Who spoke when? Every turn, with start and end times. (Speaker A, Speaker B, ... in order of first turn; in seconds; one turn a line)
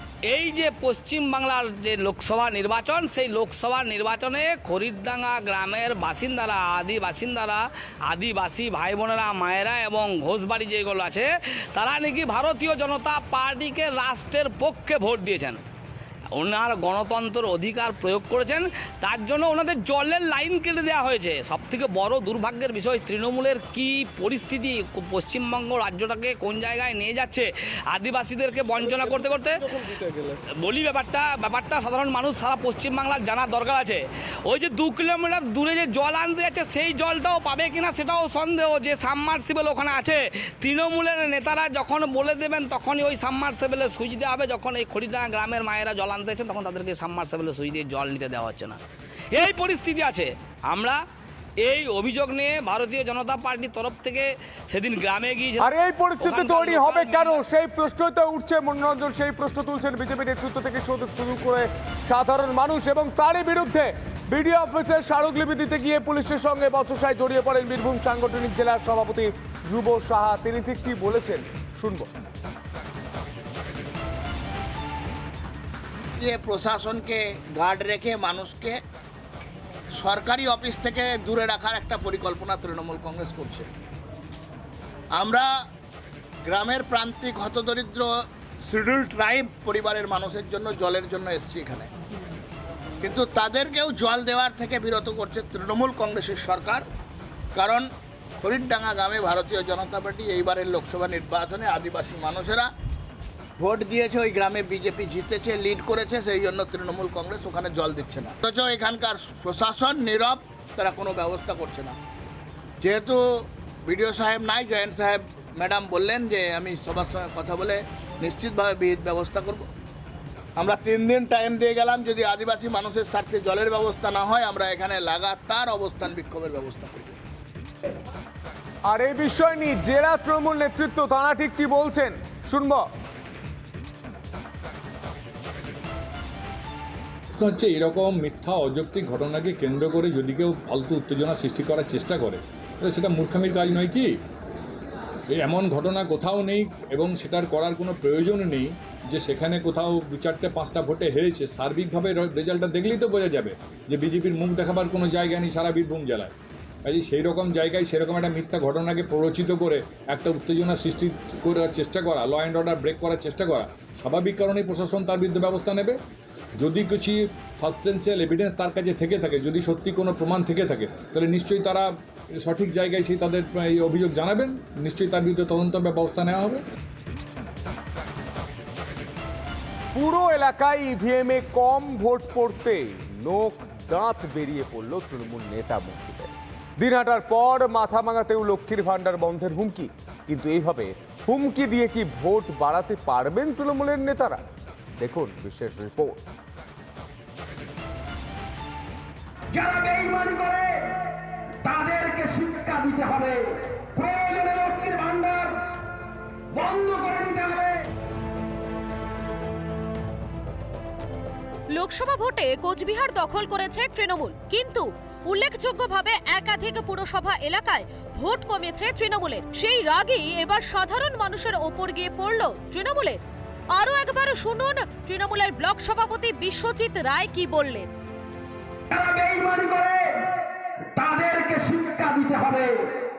Speaker A: 0.3-15.6
Speaker A: 16.3-29.8
Speaker A: 30.6-48.8
Speaker A: 49.3-51.0
Speaker A: 51.6-57.4
Speaker B: 55.6-72.1
Speaker C: 76.2-78.8
Speaker C: 80.0-83.7
Speaker C: 85.2-85.5
Speaker C: 86.5-88.1
Speaker C: 88.6-91.9
Speaker C: 93.0-96.8
Speaker C: 97.5-97.9
Speaker C: 98.4-102.7
Speaker C: 103.6-112.0
Speaker C: 112.8-119.7
Speaker C: 120.6-127.2
Speaker B: 128.9-132.9
Speaker D: 137.4-144.1
Speaker D: 145.3-156.3
Speaker D: 156.9-166.0
Speaker D: 166.6-171.9
Speaker D: 172.4-176.6
Speaker B: 179.9-194.4
Speaker B: 195.0-196.2
Speaker E: 199.5-201.0
Speaker E: 201.6-205.6
Speaker E: 206.5-207.8
Speaker F: 211.7-223.2
Speaker F: 223.8-227.9
Speaker E: 228.9-230.3
Speaker E: 231.0-232.9